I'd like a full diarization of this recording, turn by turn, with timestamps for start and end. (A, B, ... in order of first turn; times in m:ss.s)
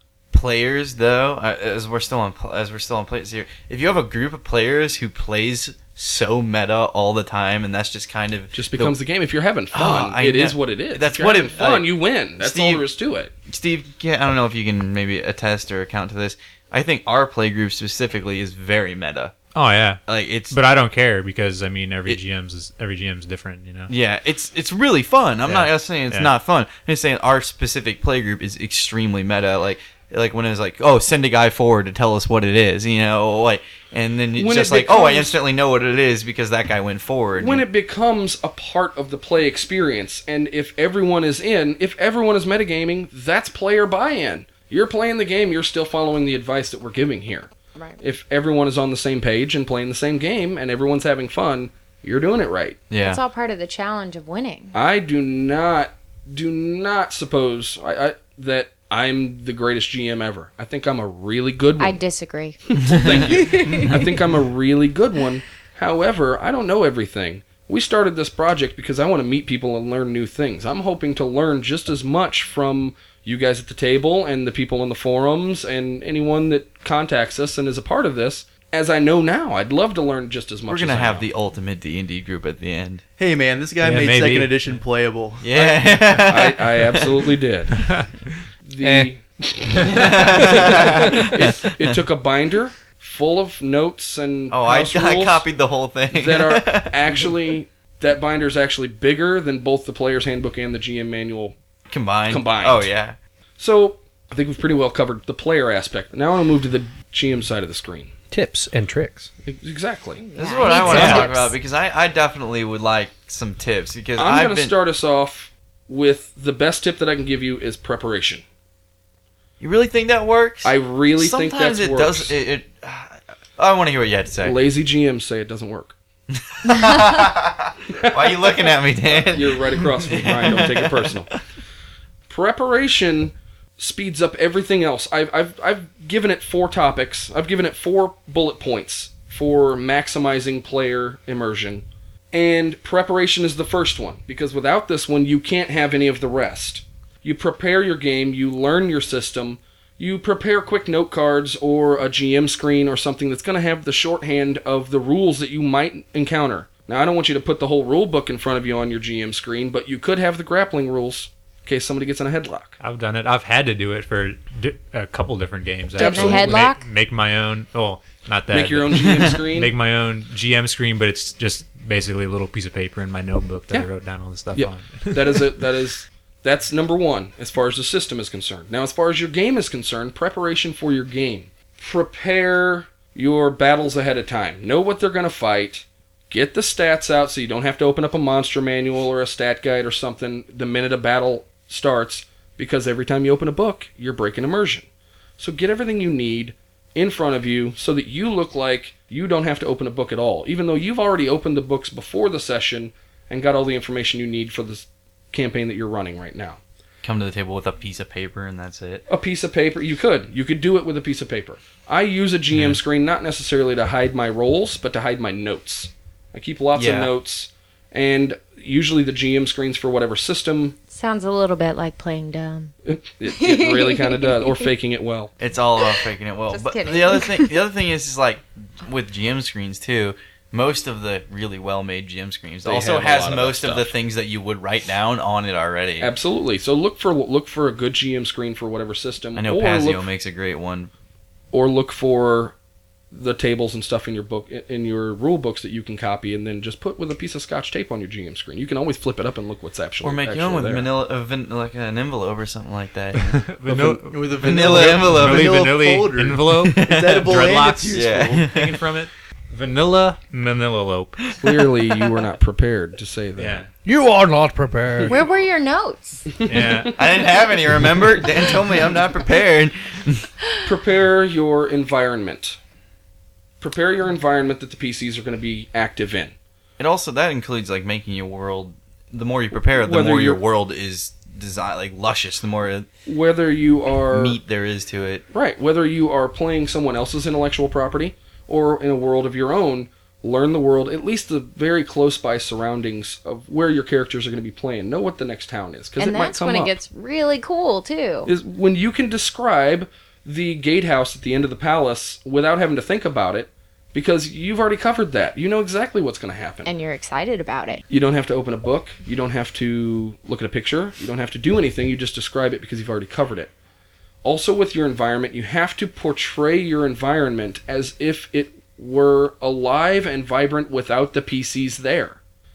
0:00.3-0:09.0 A
0:08.5-0:13.3 B
0:09.7-0:12.8 A
0:13.5-0:19.3 A
0:19.5-0:23.9 C
0:20.1-0:20.6 A
0:23.9-0:37.7 A
0:25.5-0:26.3 C
0:34.4-0:35.4 B
0:37.4-0:52.8 B
0:47.8-0:48.0 D
0:52.9-0:53.2 A
0:53.0-0:54.8 D
0:54.7-1:02.0 B
1:01.8-1:02.6 D
1:02.7-1:21.3 B
1:02.8-1:03.9 A
1:20.7-1:23.0 A
1:23.2-1:25.8 E
1:23.8-1:24.8 C
1:25.4-1:27.3 A
1:26.3-1:27.8 B
1:27.8-1:28.2 C
1:28.6-1:35.5 B
1:28.8-1:29.1 F
1:29.7-1:30.3 C
1:29.8-1:32.0 A
1:34.5-1:37.3 A
1:36.1-1:41.6 B
1:41.9-1:43.2 A
1:42.3-1:42.9 B
1:43.6-1:48.1 B
1:48.3-1:49.3 F
1:49.4-1:50.2 B
1:50.2-1:51.6 D
1:50.4-1:54.8 A
1:50.9-1:51.2 B
1:50.9-1:51.2 F
1:50.9-1:51.2 C
1:54.2-1:58.4 B
1:59.6-2:04.6 A
2:00.6-2:02.4 B
2:04.4-2:05.9 B
2:06.3-2:11.2 A
2:07.9-2:11.3 B
2:12.3-2:42.8 B
2:42.8-2:55.5 C
2:46.0-2:46.8 D
2:46.0-2:46.7 B
2:48.5-2:49.7 B
2:54.5-3:14.9 B
3:15.4-3:26.6 B
3:27.0-3:29.0 A
3:29.1-3:40.8 B
3:36.8-3:37.1 A
3:40.9-3:42.7 D
3:42.9-3:45.3 B
3:43.3-3:44.7 D
3:45.4-3:56.1 A
3:46.5-3:47.5 D
3:52.6-3:53.9 B
3:56.0-4:00.1 B
3:59.4-4:00.9 A
4:01.5-4:02.5 B
4:03.1-4:10.9 B
4:10.0-4:13.4 A
4:13.2-4:21.2 C
4:13.7-4:18.4 E
4:14.4-4:15.7 A
4:16.6-4:18.8 A
4:21.4-4:23.6 B
4:23.4-4:23.7 C
4:23.8-4:25.2 F
4:25.1-4:26.4 D
4:26.4-4:27.0 C
4:26.5-4:26.9 B
4:27.0-4:30.3 A
4:30.6-4:32.6 B
4:33.6-4:36.3 B
4:36.8-4:42.9 A
4:39.8-4:40.4 B
4:43.1-4:44.4 B
4:44.1-4:45.2 A
4:45.3-4:56.8 B
4:56.0-4:58.3 D
4:58.3-5:06.7 B
5:06.7-5:07.8 D
5:07.9-5:13.5 B
5:14.2-5:22.2 B